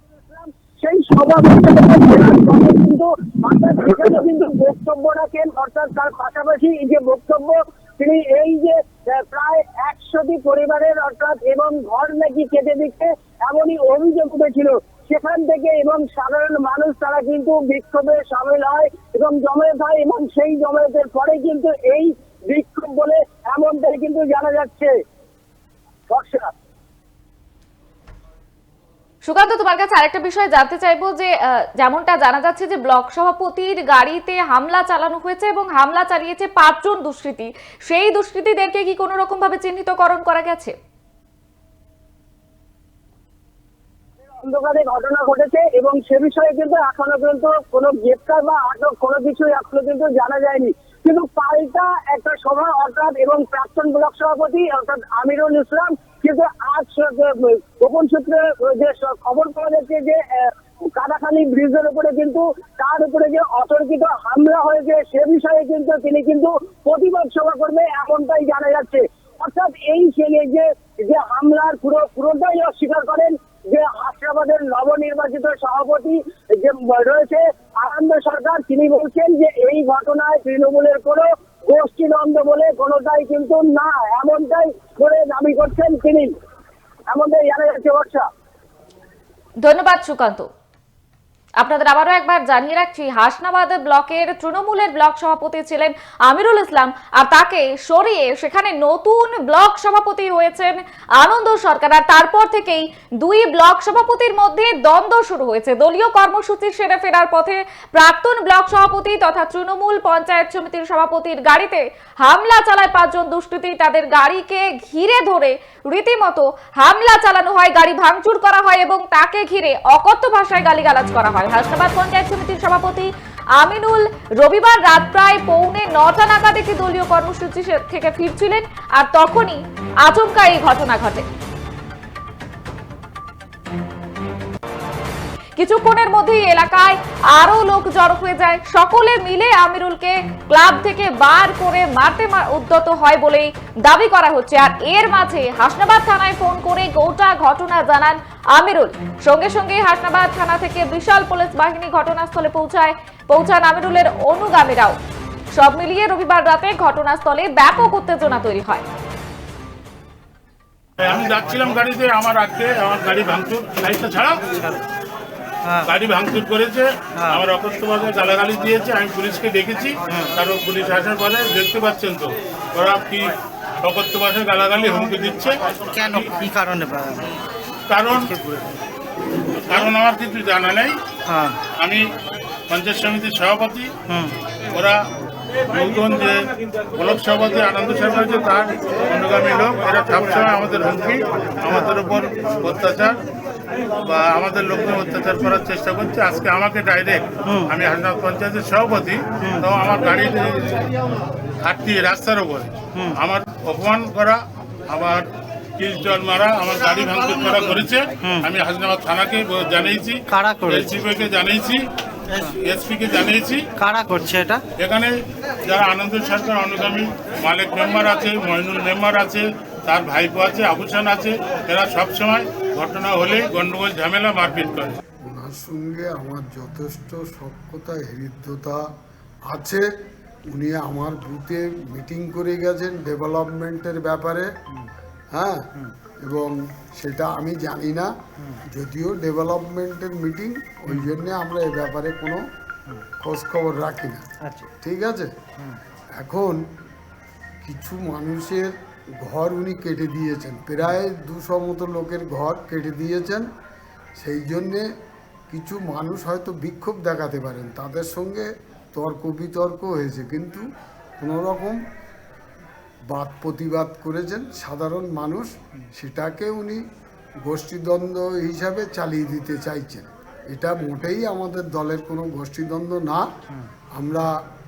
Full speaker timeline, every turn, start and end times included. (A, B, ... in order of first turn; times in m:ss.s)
0:00.2-0:24.9 A
0:26.1-0:26.5 A
0:29.2-0:40.7 B
0:44.4-1:26.3 A
1:27.1-1:28.3 A
1:29.6-1:30.5 B
1:31.6-2:11.2 B
2:15.6-2:35.0 B
2:35.5-2:38.8 B
2:41.0-2:44.4 C
2:44.5-2:44.8 D
2:45.6-2:45.9 D
2:45.8-2:55.6 C
2:47.2-2:47.4 D
2:50.1-2:50.3 D
2:55.9-2:57.3 D
2:57.9-2:58.4 C
2:58.1-2:58.8 D
2:59.6-3:01.0 C
3:01.2-3:01.6 D
3:01.8-3:02.0 C
3:02.7-3:03.9 C
3:04.1-3:04.3 D
3:04.7-3:05.0 C
3:05.7-3:13.2 C
3:11.7-3:11.9 D
3:14.0-3:20.9 C
3:17.4-3:17.7 D
3:19.4-3:19.7 D
3:21.6-3:25.2 C
3:25.8-3:31.8 C
3:28.2-3:28.5 D
3:30.3-3:30.9 D
3:32.4-3:33.6 C
3:33.8-3:34.6 D
3:34.8-3:35.1 C
3:35.6-3:45.0 C
3:45.2-3:48.8 E
3:49.5-3:49.8 E
3:50.5-3:54.5 E
3:55.3-3:55.7 E
3:56.2-3:58.1 E
3:58.7-4:02.4 E
4:03.2-4:04.2 E
4:04.8-4:05.3 E
4:06.2-4:06.6 E
4:07.6-4:13.4 E
4:14.2-4:14.8 E
4:15.5-4:20.6 E
4:21.2-4:21.8 E
4:23.1-4:26.8 E
4:27.4-4:33.3 E
4:33.9-4:34.3 E